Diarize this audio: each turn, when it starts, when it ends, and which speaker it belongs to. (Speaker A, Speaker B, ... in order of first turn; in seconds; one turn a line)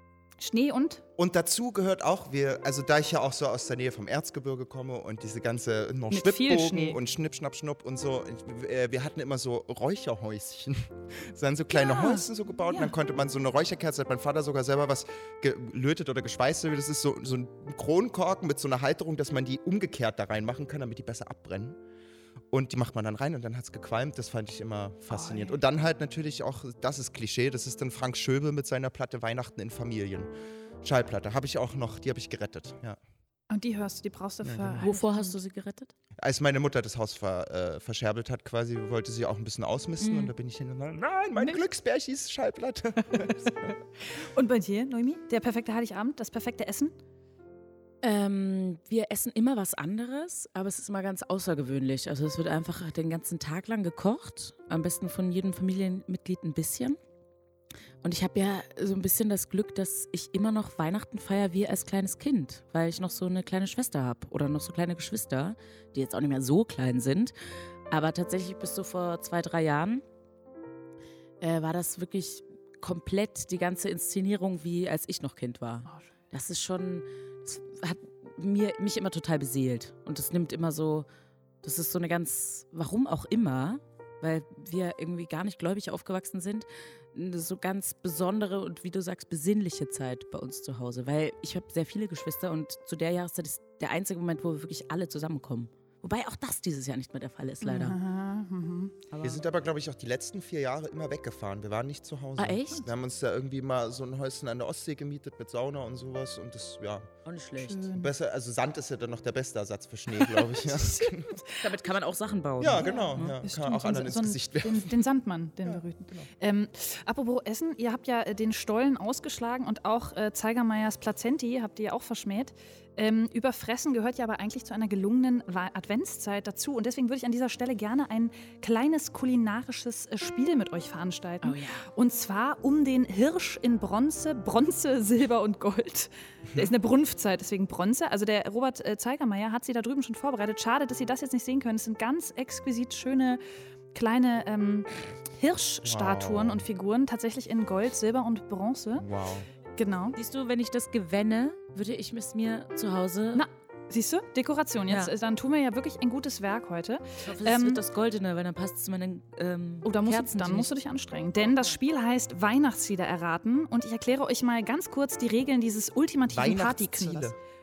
Speaker A: 0.4-1.0
Speaker B: 1.2-21.8
Speaker A: 6.1-7.0
Speaker A: 11.7-12.9
Speaker B: 22.5-30.3
Speaker A: 25.1-25.6
Speaker B: 30.8-33.0
Speaker A: 33.5-35.4
Speaker B: 34.4-34.8
Speaker C: 34.8-35.9
Speaker B: 36.2-43.7
Speaker C: 40.0-40.3
Speaker A: 41.4-41.6
Speaker A: 43.2-43.5
Speaker A: 44.1-46.9
Speaker C: 48.0-57.0
Speaker C: 58.0-67.3
Speaker C: 67.9-70.0
Speaker C: 71.4-81.1
Speaker C: 81.6-98.0
Speaker A: 97.6-99.0
Speaker C: 99.1-99.4
Speaker B: 99.2-107.1
Speaker C: 102.4-102.9
Speaker C: 107.2-107.9
Speaker A: 107.6-108.1
Speaker B: 107.9-111.4
Speaker A: 110.2-111.6
Speaker C: 111.6-113.4
Speaker B: 112.6-115.0
Speaker A: 112.7-143.4
Speaker B: 115.6-116.3
Speaker C: 131.4-131.9
Speaker A: 143.9-149.1
Speaker B: 145.8-146.6
Speaker B: 149.0-149.5
Speaker A: 149.8-150.2
Speaker C: 150.2-153.5
Speaker A: 153.3-157.8
Speaker C: 154.9-155.1
Speaker C: 157.2-160.7
Speaker A: 159.8-167.3
Speaker B: 166.3-167.4